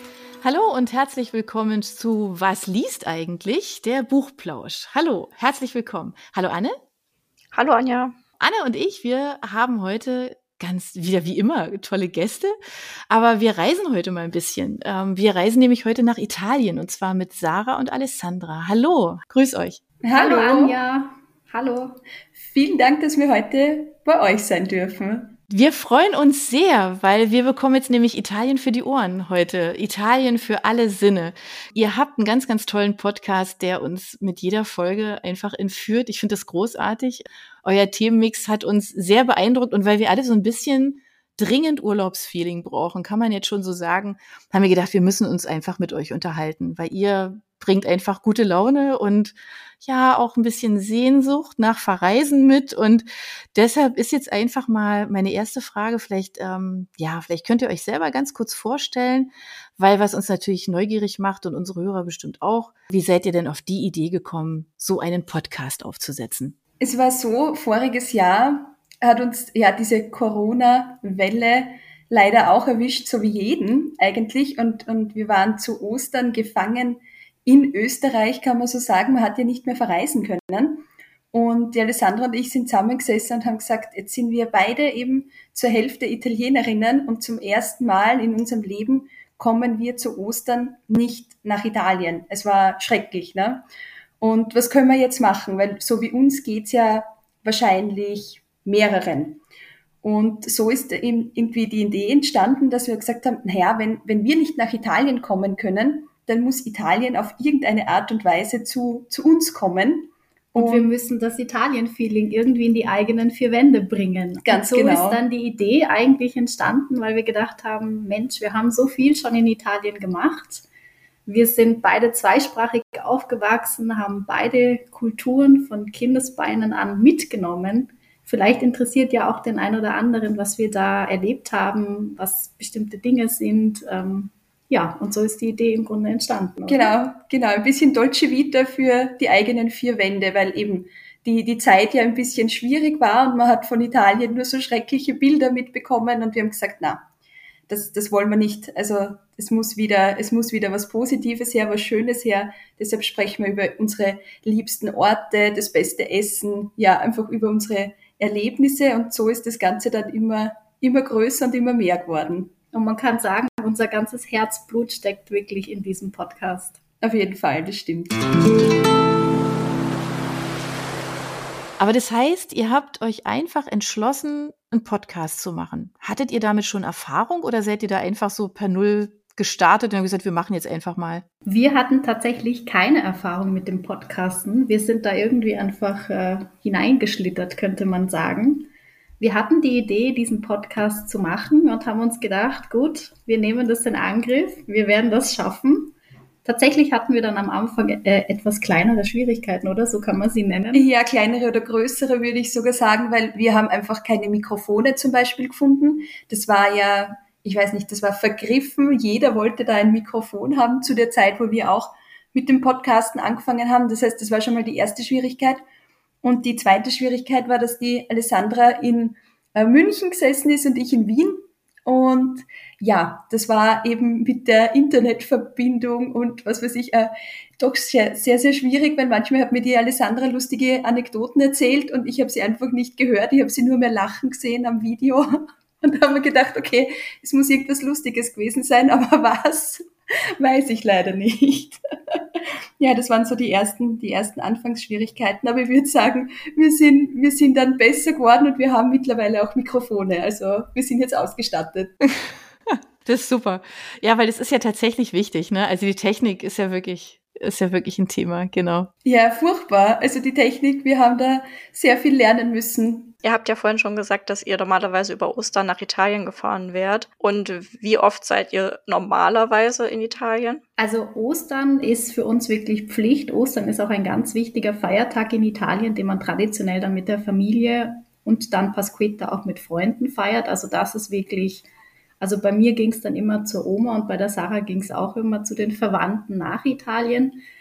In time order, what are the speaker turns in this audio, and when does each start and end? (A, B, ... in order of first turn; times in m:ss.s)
0:00.4-0:06.8 A
0:07.5-0:08.2 B
0:08.4-0:12.6 A
0:13.1-0:19.8 A
0:20.0-0:20.8 C
0:20.1-0:22.0 D
0:22.4-0:25.4 C
0:25.5-1:06.6 A
1:06.8-1:33.6 C
1:34.2-1:39.4 C
1:40.0-1:50.9 C
1:50.6-2:00.6 D
1:54.5-1:55.2 C
2:01.3-2:16.9 D
2:16.7-2:27.0 C
2:27.7-2:42.5 C
2:42.7-2:46.8 D
2:47.0-2:48.2 C
2:51.8-3:01.2 A
3:01.5-3:08.7 D
3:09.2-3:20.9 D
3:20.7-3:35.6 C
3:36.2-3:59.9 C
4:00.4-4:12.0 C
4:12.3-4:18.9 A
4:19.0-4:23.1 C
4:23.2-4:30.6 B
4:30.8-4:41.6 D
4:42.2-4:47.4 D